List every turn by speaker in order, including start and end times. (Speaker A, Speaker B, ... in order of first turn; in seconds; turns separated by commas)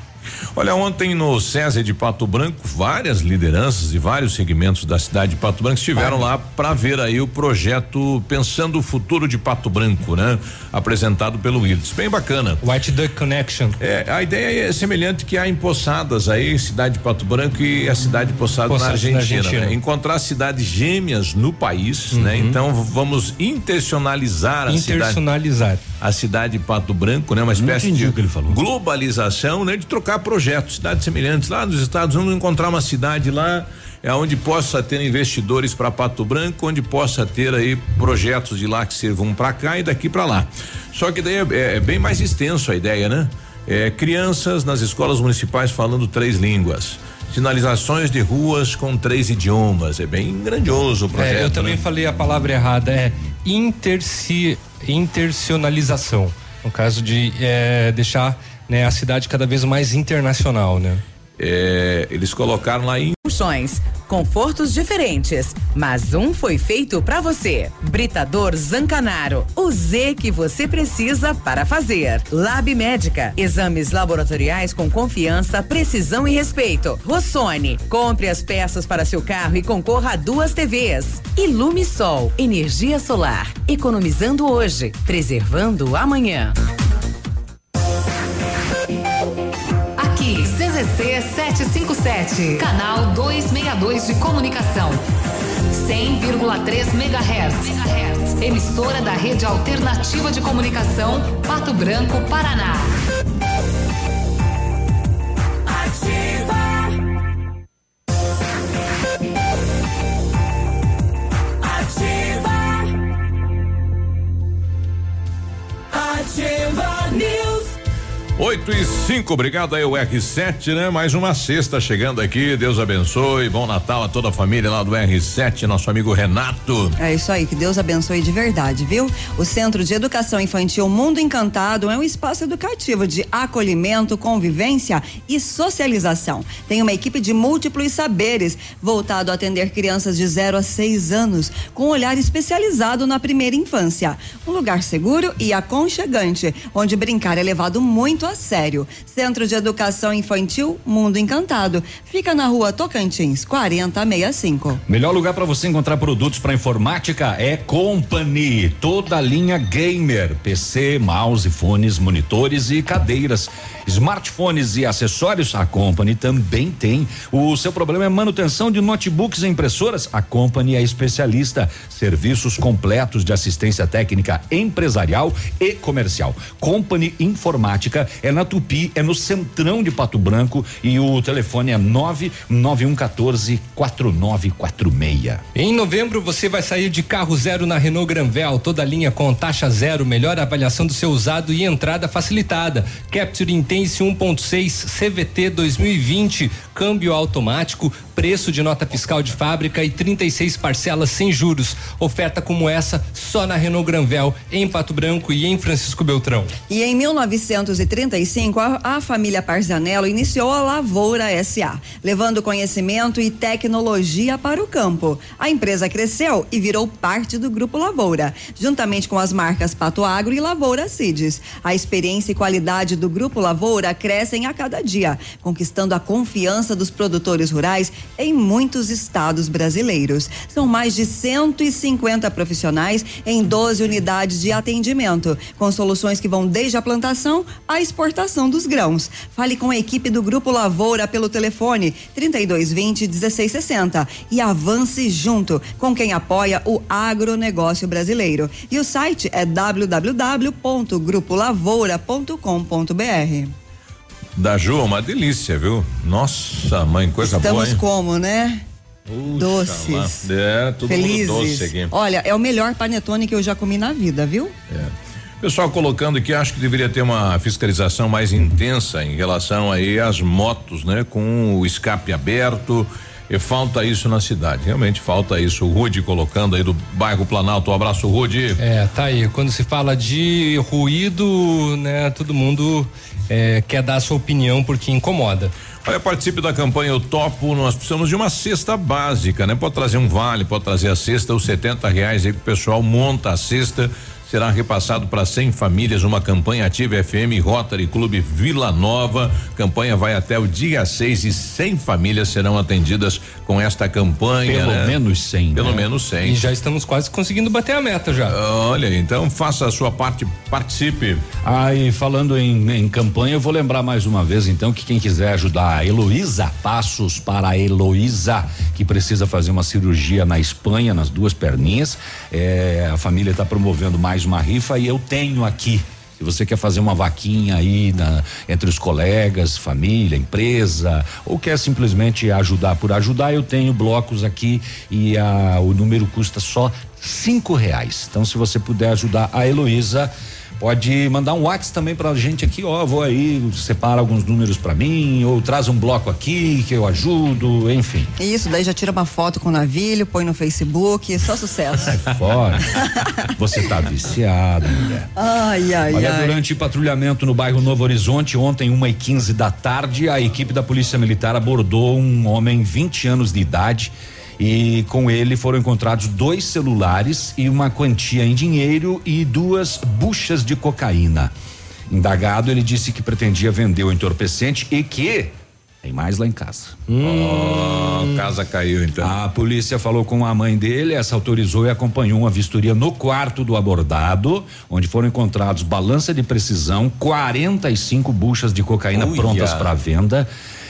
Speaker A: 0.5-12.6, Speaker B: 12.6-13.8, Speaker A: 13.8-25.2, Speaker B: 18.7-19.8, Speaker B: 22.1-22.6, Speaker B: 24.7-25.8, Speaker A: 26.0-51.8, Speaker C: 27.5-28.6, Speaker B: 51.1-61.0, Speaker A: 61.4-63.1, Speaker D: 63.2-86.5, Speaker E: 90.0-95.0, Speaker E: 95.7-103.0, Speaker A: 118.4-127.0, Speaker F: 127.0-154.8, Speaker C: 154.9-185.4, Speaker B: 185.5-206.5, Speaker F: 206.7-253.5, Speaker A: 254.3-257.8, Speaker F: 257.2-258.6, Speaker A: 259.1-261.9, Speaker F: 259.3-260.1, Speaker F: 260.9-264.5, Speaker A: 264.7-278.6, Speaker B: 278.6-285.5, Speaker A: 285.8-304.9, Speaker C: 304.4-305.9, Speaker A: 305.5-306.4, Speaker B: 306.2-308.4, Speaker A: 308.3-311.2, Speaker C: 311.4-348.1, Speaker F: 348.2-352.1, Speaker C: 352.0-352.6, Speaker F: 352.7-353.1, Speaker C: 353.3-355.1, Speaker F: 355.1-356.3, Speaker C: 355.9-371.3, Speaker C: 371.9-376.8, Speaker B: 376.9-378.1, Speaker A: 377.0-379.1, Speaker C: 379.0-390.3, Speaker A: 388.9-389.7